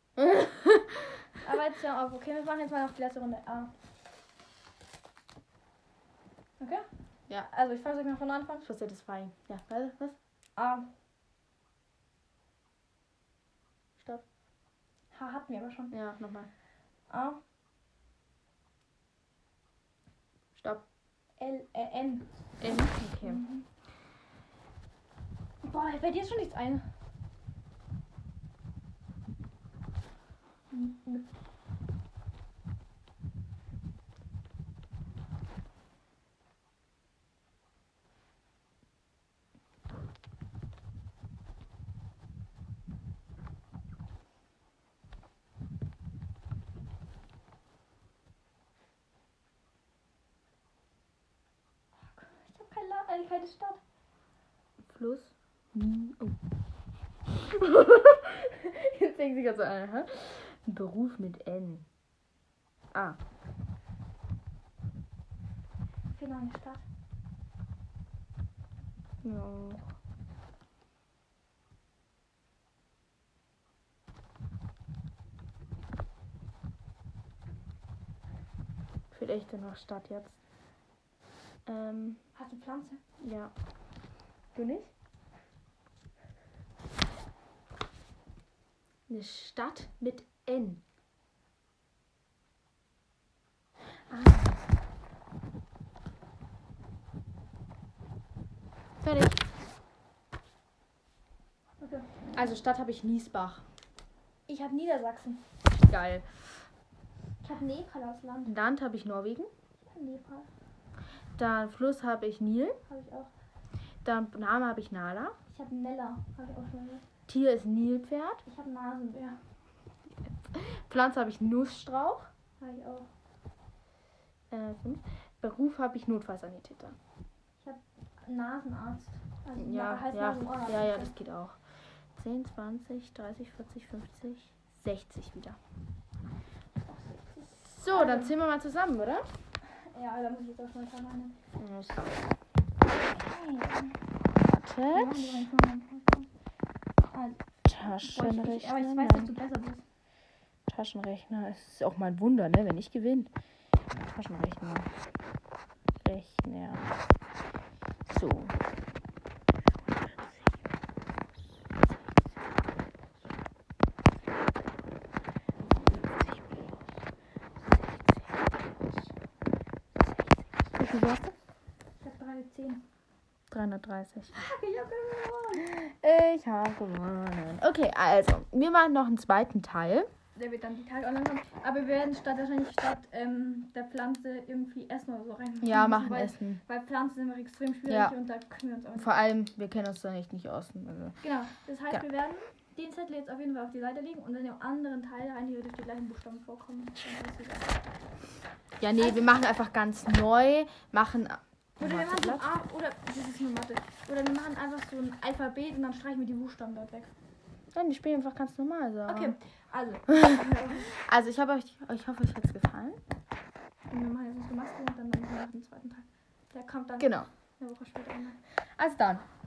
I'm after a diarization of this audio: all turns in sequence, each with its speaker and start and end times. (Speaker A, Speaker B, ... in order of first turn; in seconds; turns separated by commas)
Speaker A: 0.2-1.2, Speaker B: 1.4-3.7, Speaker B: 6.6-6.9, Speaker B: 7.5-8.7, Speaker A: 8.6-10.2, Speaker B: 10.6-10.9, Speaker A: 14.0-14.2, Speaker B: 15.1-16.0, Speaker A: 15.9-16.5, Speaker B: 17.1-17.4, Speaker A: 20.6-20.9, Speaker B: 21.4-22.3, Speaker A: 22.6-23.4, Speaker B: 23.1-23.7, Speaker B: 25.6-26.9, Speaker B: 30.7-31.3, Speaker B: 52.0-53.8, Speaker A: 54.9-56.4, Speaker A: 57.3-61.9, Speaker A: 62.9-63.2, Speaker B: 66.1-66.8, Speaker A: 69.2-69.9, Speaker A: 79.1-80.4, Speaker A: 81.7-82.2, Speaker B: 82.3-83.0, Speaker A: 83.2-83.5, Speaker A: 84.5-84.9, Speaker A: 89.1-90.8, Speaker A: 94.1-94.6, Speaker A: 99.0-99.4, Speaker B: 101.8-102.2, Speaker A: 102.3-103.7, Speaker B: 104.5-105.4, Speaker A: 105.8-106.4, Speaker B: 107.4-108.5, Speaker A: 108.5-109.5, Speaker B: 109.8-110.5, Speaker A: 111.4-112.8, Speaker B: 112.9-113.3, Speaker A: 114.0-115.4, Speaker B: 115.5-117.0, Speaker A: 117.3-118.4, Speaker B: 118.5-119.4, Speaker A: 120.2-122.3, Speaker B: 122.6-123.1, Speaker A: 124.5-127.0, Speaker B: 127.6-131.1, Speaker A: 129.6-131.6, Speaker A: 132.1-135.6, Speaker B: 136.8-138.3, Speaker A: 137.6-139.3, Speaker B: 139.7-141.4, Speaker A: 141.6-142.2, Speaker B: 143.1-144.0, Speaker A: 144.5-145.3, Speaker B: 144.9-146.3, Speaker B: 147.1-149.8, Speaker A: 147.7-149.3, Speaker A: 150.7-153.3, Speaker A: 154.0-154.9, Speaker A: 156.0-156.8, Speaker A: 158.1-158.6, Speaker A: 165.6-166.6, Speaker A: 167.7-168.7, Speaker A: 170.1-171.3, Speaker B: 172.0-172.9, Speaker A: 173.5-174.3, Speaker B: 174.3-175.7, Speaker A: 175.6-180.1, Speaker B: 180.3-189.1, Speaker A: 185.6-186.6, Speaker A: 187.9-188.1, Speaker A: 189.0-191.2, Speaker B: 191.2-197.8, Speaker A: 198.8-202.4, Speaker B: 201.8-207.1, Speaker A: 207.7-209.4, Speaker B: 209.1-210.9, Speaker A: 210.1-213.0, Speaker B: 213.9-218.4, Speaker A: 217.0-217.3, Speaker A: 218.6-219.2